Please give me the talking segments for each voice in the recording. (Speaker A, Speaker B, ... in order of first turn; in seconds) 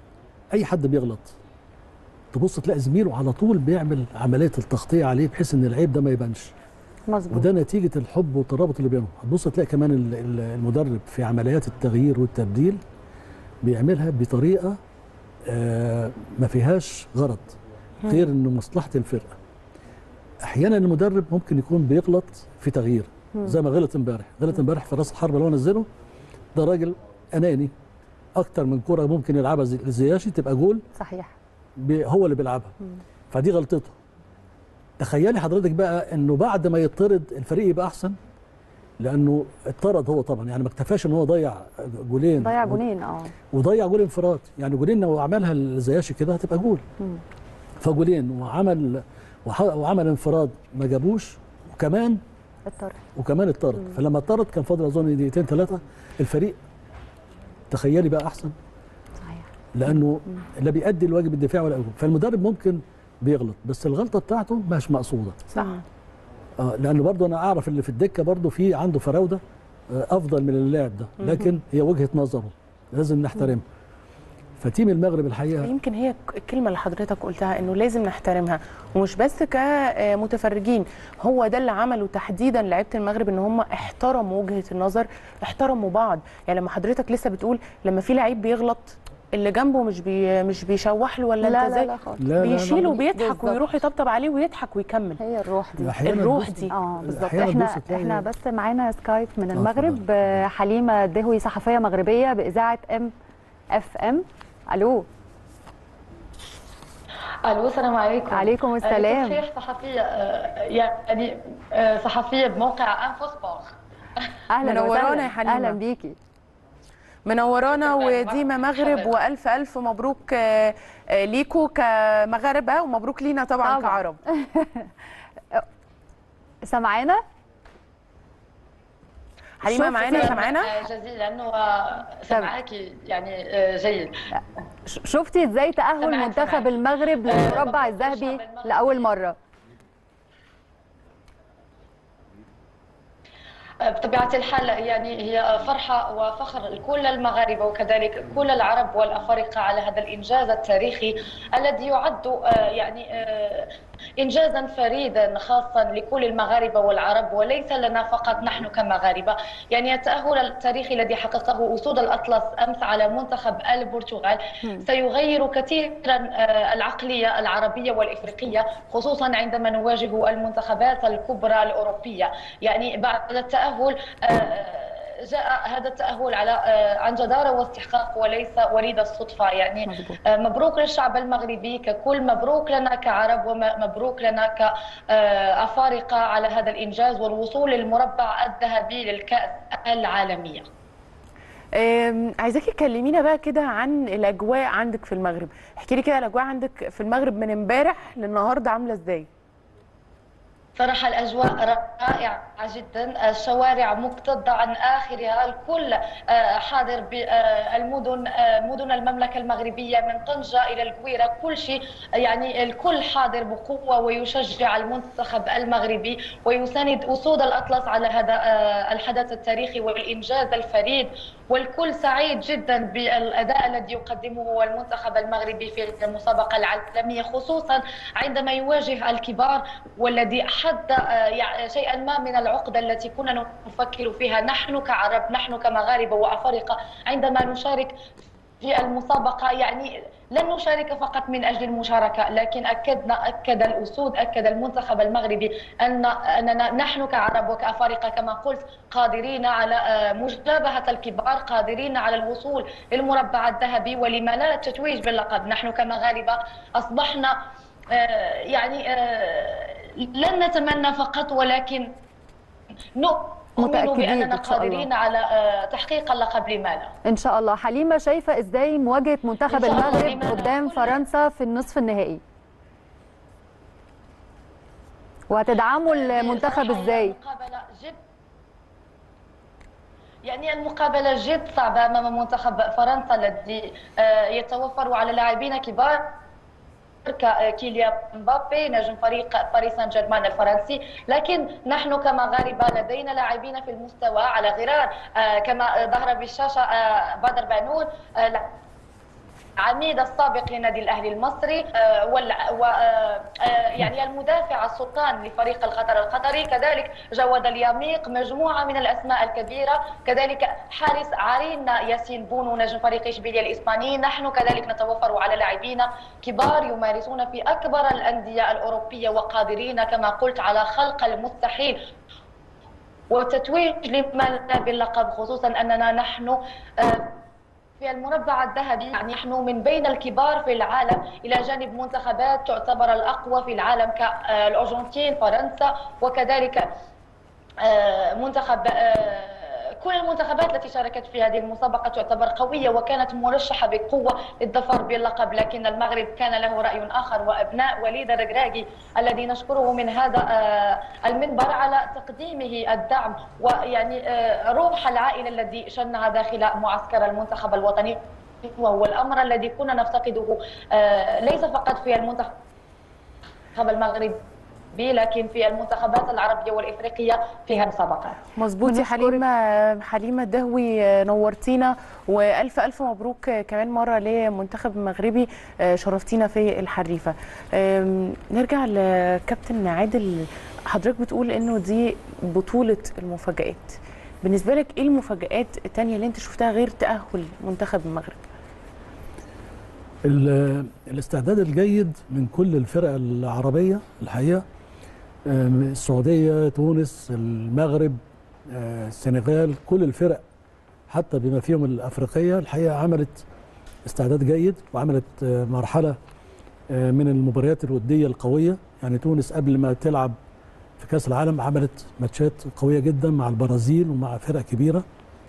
Speaker A: 0.5-1.4, 2.3-6.5, 7.3-12.8, 13.6-14.8, 15.5-19.4, 20.4-25.9, 26.6-27.7, 28.4-30.8, 31.8-32.8, 33.3-34.0, 35.0-38.2, 39.0-42.8, 43.5-46.8, 47.8-52.2, 53.1-56.6, 57.7-58.5, 59.7-65.5, 66.6-73.6, 74.6-75.7, 92.2-93.0, 95.8-98.2, 99.5-100.4, 390.1-394.4, 395.3-400.2, 400.9-403.2, 403.9-406.0, 406.7-410.1, 410.8-414.9
Speaker B: 7.1-7.5, 30.9-31.3, 42.4-43.3, 52.7-53.0, 59.2-59.5, 91.4-93.6, 95.2-96.0, 96.7-103.1, 103.7-105.1, 108.3-109.4, 114.5-116.2, 123.6-124.9, 126.7-127.2, 129.6-130.5, 134.4-139.4, 179.9-180.2, 263.6-264.9, 267.1-272.2, 275.3-277.1, 368.6-369.2
Speaker C: 65.5-65.8, 71.2-71.5, 75.6-95.2, 96.0-97.2, 114.6-115.8, 117.3-124.2, 129.6-130.8, 191.8-199.3, 368.4-388.2
Speaker D: 107.4-113.8, 117.7-119.2, 130.0-134.3, 136.0-139.1, 143.8-190.7, 200.8-238.0, 238.6-261.9, 263.0-266.9, 269.5-271.0, 275.9-278.0, 280.2-286.1, 287.1-298.5, 299.6-321.8, 323.1-327.1, 327.8-336.7, 337.6-362.3, 363.6-364.2, 364.7-368.2